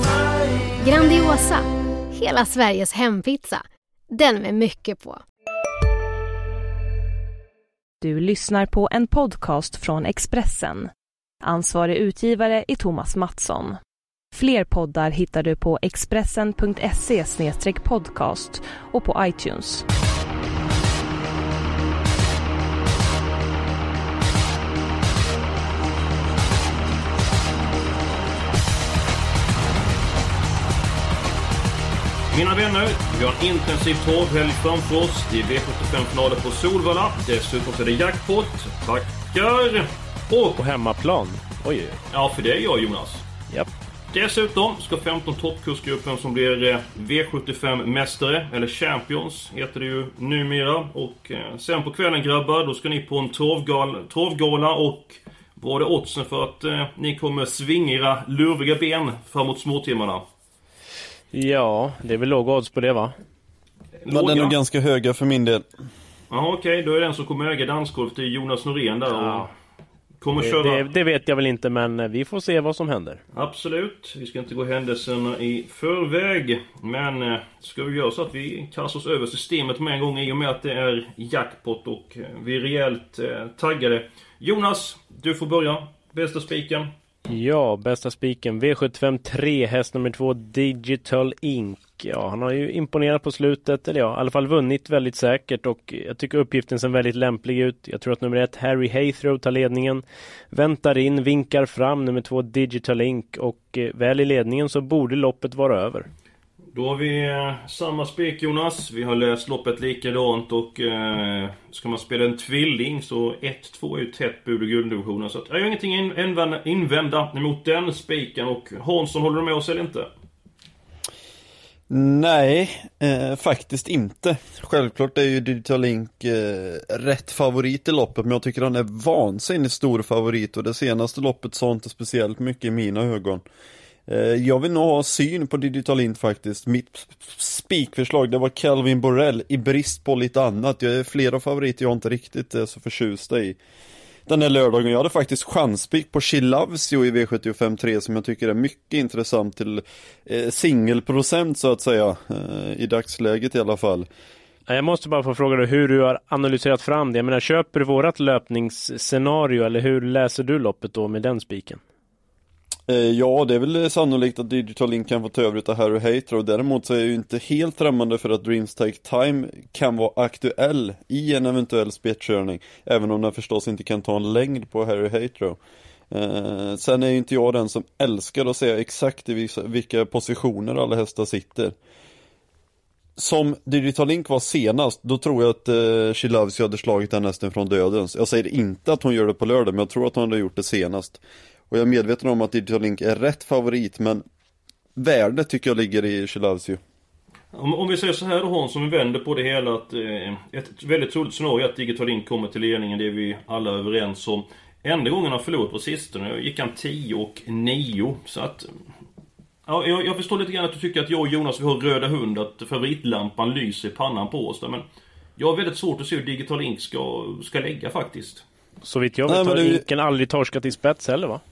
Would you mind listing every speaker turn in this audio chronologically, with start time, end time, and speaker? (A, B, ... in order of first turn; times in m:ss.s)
0:00.8-0:05.2 A
0:08.0-0:10.9 B
0:11.4-0:13.8 B
0:14.3-0:19.8 B
0:32.3-0:40.6 C
0:40.6-0:42.0 D
0:42.1-0:43.2 C
0:44.1-1:00.2 C
1:01.3-1:03.1 D
1:04.0-1:04.6 C
1:04.1-1:05.6 E
1:06.3-1:09.5 C
1:09.1-1:09.5 D
1:10.2-1:10.9 C
1:10.4-1:13.2 D
1:13.3-1:26.9 C
1:27.3-1:46.1 D
1:46.7-2:00.1 C
2:01.9-2:13.4 E
2:14.1-2:23.6 E
2:24.3-2:34.1 E
2:34.7-2:41.8 D
2:42.9-2:55.6 E
2:56.1-3:01.8 E
3:03.2-3:14.2 E
3:15.0-3:16.8 E
3:17.5-3:28.7 C
3:29.7-3:34.8 C
3:35.4-3:38.4 C
3:38.8-3:41.4 D
3:39.3-3:39.8 E